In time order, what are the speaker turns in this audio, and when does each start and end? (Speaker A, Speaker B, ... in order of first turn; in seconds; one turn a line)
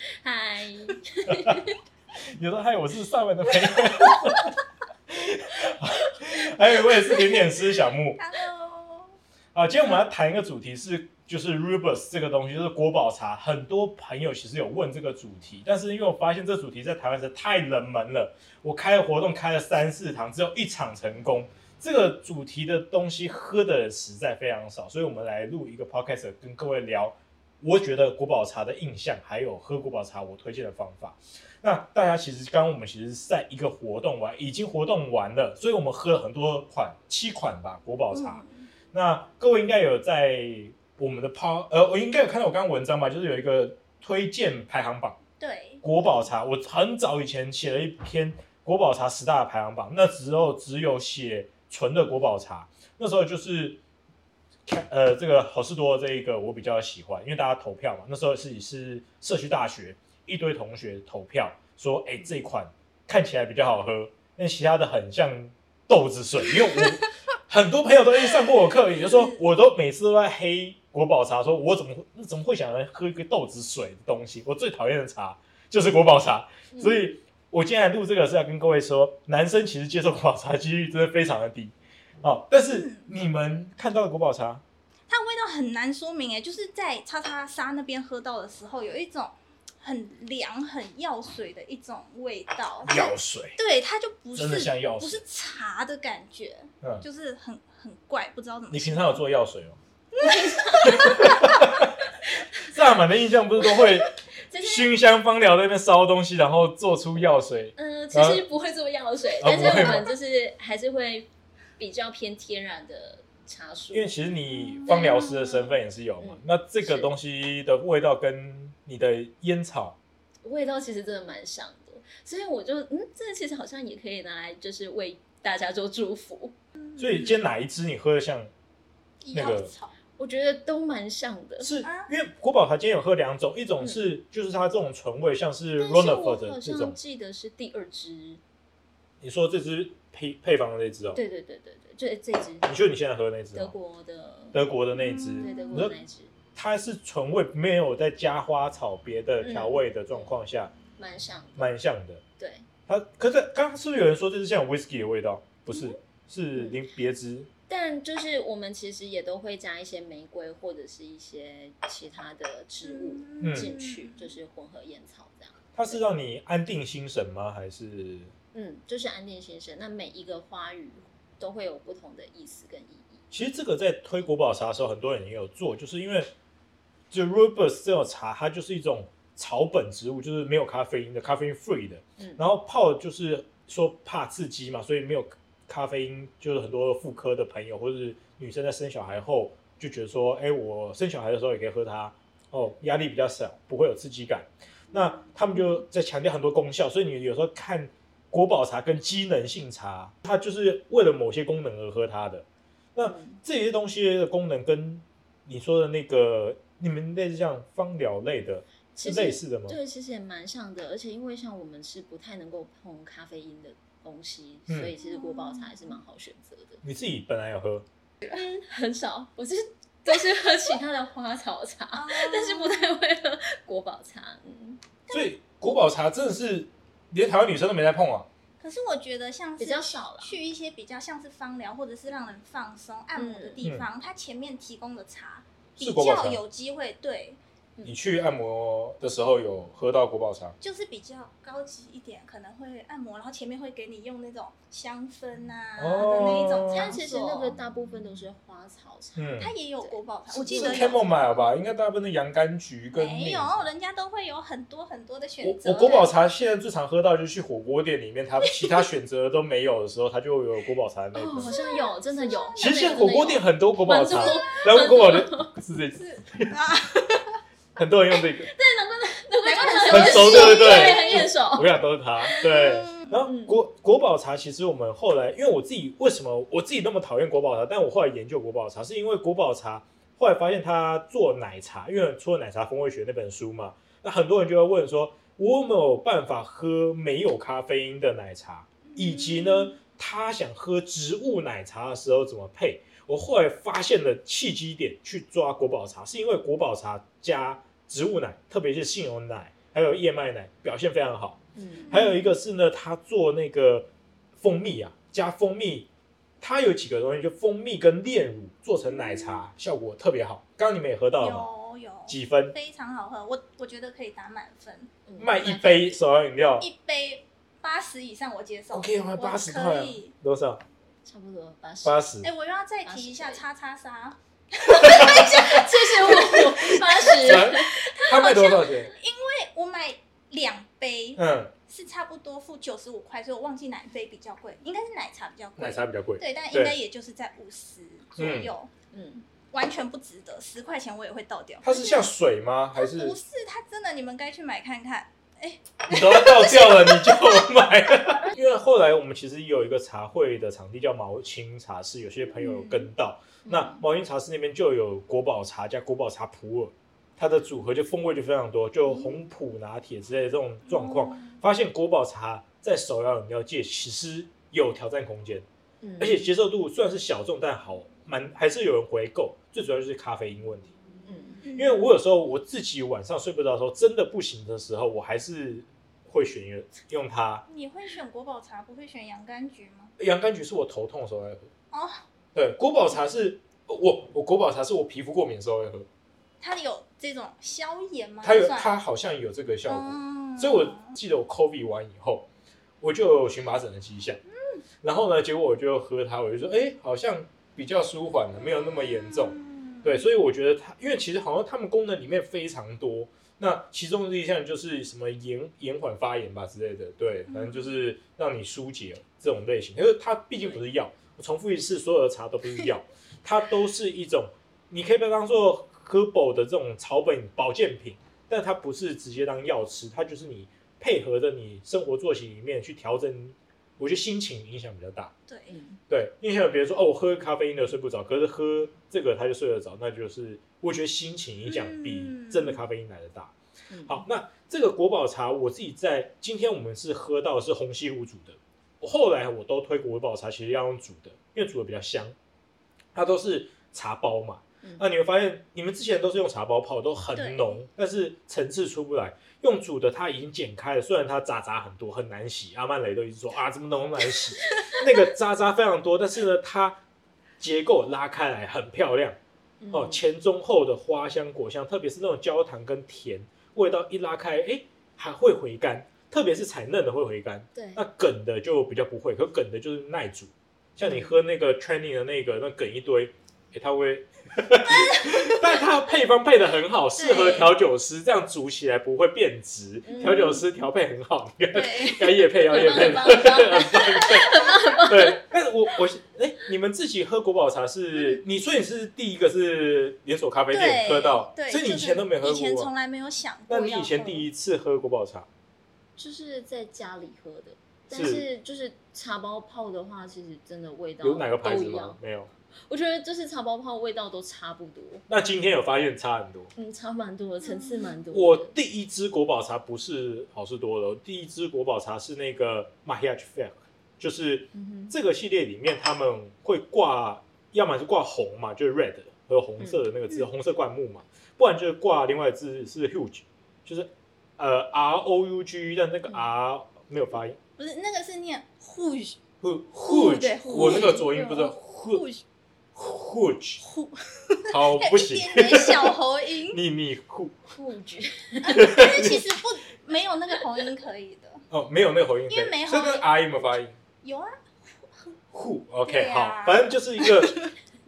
Speaker A: 0.2-1.8
Speaker B: 2.4-4.5
Speaker B: 5.1-8.2
Speaker C: 8.2-9.1
Speaker B: 9.5-45.2
Speaker C: 38.1-38.7
Speaker C: 45.4-46.3
Speaker B: 45.8-53.8
Speaker B: 54.7-84.6
Speaker C: 68.9-69.4
Speaker A: 76.7-77.0
Speaker C: 82.7-83.1
Speaker C: 85.1-99.2
Speaker B: 92.8-93.6
Speaker B: 94.3-95.2
Speaker B: 98.7-99.8
Speaker C: 100.2-101.5
Speaker A: 100.2-101.5
Speaker B: 100.9-101.9
Speaker B: 102.7-108.4
Speaker A: 103.6-104.9
Speaker A: 107.8-114.1
Speaker B: 109.4-110.1
Speaker B: 113.9-120.0
Speaker C: 114.6-115.7
Speaker A: 116.2-117.1
Speaker A: 120.4-126.5
Speaker C: 126.8-127.4
Speaker B: 127.0-128.5
Speaker C: 129.2-130.0
Speaker B: 129.3-129.7
Speaker A: 130.2-131.7
Speaker B: 131.6-137.0
Speaker C: 131.8-132.1
Speaker A: 133.8-134.2
Speaker A: 135.8-138.4
Speaker B: 139.2-141.2
Speaker A: 141.1-142.7
Speaker B: 142.6-143.8
Speaker A: 143.6-144.7
Speaker B: 144.5-146.0
Speaker C: 144.9-145.9
Speaker A: 145.4-146.3
Speaker B: 146.6-150.7
Speaker A: 149.4-150.4
Speaker A: 151.0-151.7
Speaker B: 151.6-152.2
Speaker A: 152.4-152.7
Speaker B: 152.9-157.5
Speaker C: 155.7-156.0
Speaker A: 156.6-156.8
Speaker A: 157.7-166.0
Speaker C: 162.8-164.3
Speaker B: 163.4-163.7
Speaker B: 165.8-168.3
Speaker A: 168.5-173.2
Speaker B: 173.3-176.3
Speaker B: 177.1-209.8
Speaker A: 203.0-203.4
Speaker A: 208.9-216.8
Speaker B: 214.7-214.9
Speaker C: 215.0-216.0
Speaker B: 216.8-217.8
Speaker A: 218.2-224.8
Speaker C: 221.9-222.9
Speaker B: 225.1-228.3
Speaker C: 228.6-237.4
Speaker A: 229.6-230.4
Speaker A: 233.2-233.7
Speaker B: 235.8-236.4
Speaker B: 237.8-240.6
Speaker C: 240.6-247.5
Speaker B: 245.8-247.0
Speaker A: 246.2-251.1
Speaker B: 249.2-249.5
Speaker C: 249.4-251.4
Speaker B: 250.5-253.7
Speaker C: 252.9-256.1
Speaker B: 255.4-261.6
Speaker A: 261.1-265.5
Speaker C: 261.4-263.1
Speaker B: 262.6-266.5
Speaker C: 264.1-264.4
Speaker C: 265.9-267.4
Speaker B: 267.8-268.5
Speaker A: 268.4-272.5
Speaker C: 269.4-271.3
Speaker B: 269.9-303.9
Speaker C: 272.4-273.2
Speaker A: 273.2-273.6
Speaker C: 288.9-289.8
Speaker A: 301.6-302.0
Speaker C: 301.8-302.3
Speaker B: 304.4-305.9
Speaker B: 306.4-311.5
Speaker C: 311.2-314.9
Speaker B: 312.1-312.5
Speaker A: 315.1-316.0
Speaker B: 315.2-316.7
Speaker C: 316.4-320.1
Speaker B: 318.7-320.6
Speaker A: 321.1-322.1
Speaker B: 321.8-322.3
Speaker C: 322.2-324.2
Speaker A: 322.8-323.4
Speaker C: 324.7-325.4
Speaker A: 324.8-328.2
Speaker B: 324.8-325.6
Speaker C: 326.1-338.7
Speaker B: 327.1-328.9
Speaker B: 331.2-331.5
Speaker B: 335.6-336.8
Speaker B: 338.2-338.5
Speaker A: 338.9-339.3
Speaker C: 339.4-342.1
Speaker B: 341.6-343.2
Speaker C: 342.7-347.5
Speaker B: 345.9-365.4
Speaker C: 352.3-352.9
Speaker A: 353.4-353.8
Speaker C: 358.9-359.2
Speaker C: 360.7-361.3
Speaker A: 365.8-366.3
Speaker B: 366.0-370.7
Speaker A: 371.1-371.5
Speaker C: 371.4-371.8
Speaker B: 371.6-377.4
Speaker C: 377.5-379.9
Speaker B: 380.0-381.5
Speaker C: 381.7-382.0
Speaker B: 382.4-385.9
Speaker C: 386.4-388.7
Speaker B: 388.2-392.3
Speaker C: 389.7-390.9
Speaker B: 392.8-394.2
Speaker C: 394.4-394.6
Speaker B: 394.8-425.1
Speaker C: 398.4-400.0
Speaker C: 407.3-407.8
Speaker A: 410.4-410.6
Speaker C: 425.3-425.5
Speaker A: 425.5-425.8
Speaker B: 425.9-433.3
Speaker C: 431.5-432.6
Speaker A: 433.7-434.1
Speaker B: 433.9-442.1
Speaker B: 442.9-456.8
Speaker C: 447.1-447.6
Speaker B: 457.4-459.2
Speaker A: 459.6-460.0
Speaker B: 459.7-492.7
Speaker A: 467.6-467.9
Speaker A: 470.8-471.2
Speaker C: 474.7-475.4
Speaker C: 477.0-477.5
Speaker A: 479.9-480.5
Speaker C: 481.5-483.7
Speaker A: 482.4-485.2
Speaker C: 490.5-494.3
Speaker B: 493.5-495.3
Speaker A: 496.0-502.0
Speaker B: 497.9-498.3
Speaker B: 501.0-502.3
Speaker A: 502.7-505.0
Speaker B: 505.1-506.5
Speaker A: 506.6-508.5
Speaker C: 507.4-508.0
Speaker B: 508.1-527.4
Speaker A: 514.5-515.0
Speaker A: 519.6-519.9
Speaker C: 527.6-529.2
Speaker B: 529.4-532.0
Speaker C: 529.9-532.2
Speaker A: 530.5-530.9
Speaker B: 532.8-533.6
Speaker C: 533.6-536.6
Speaker B: 534.5-537.4
Speaker A: 537.5-538.7
Speaker C: 538.4-541.4
Speaker B: 538.5-539.4
Speaker B: 541.5-543.8
Speaker C: 542.3-543.5
Speaker C: 544.0-545.1
Speaker B: 545.3-547.4
Speaker C: 545.9-547.5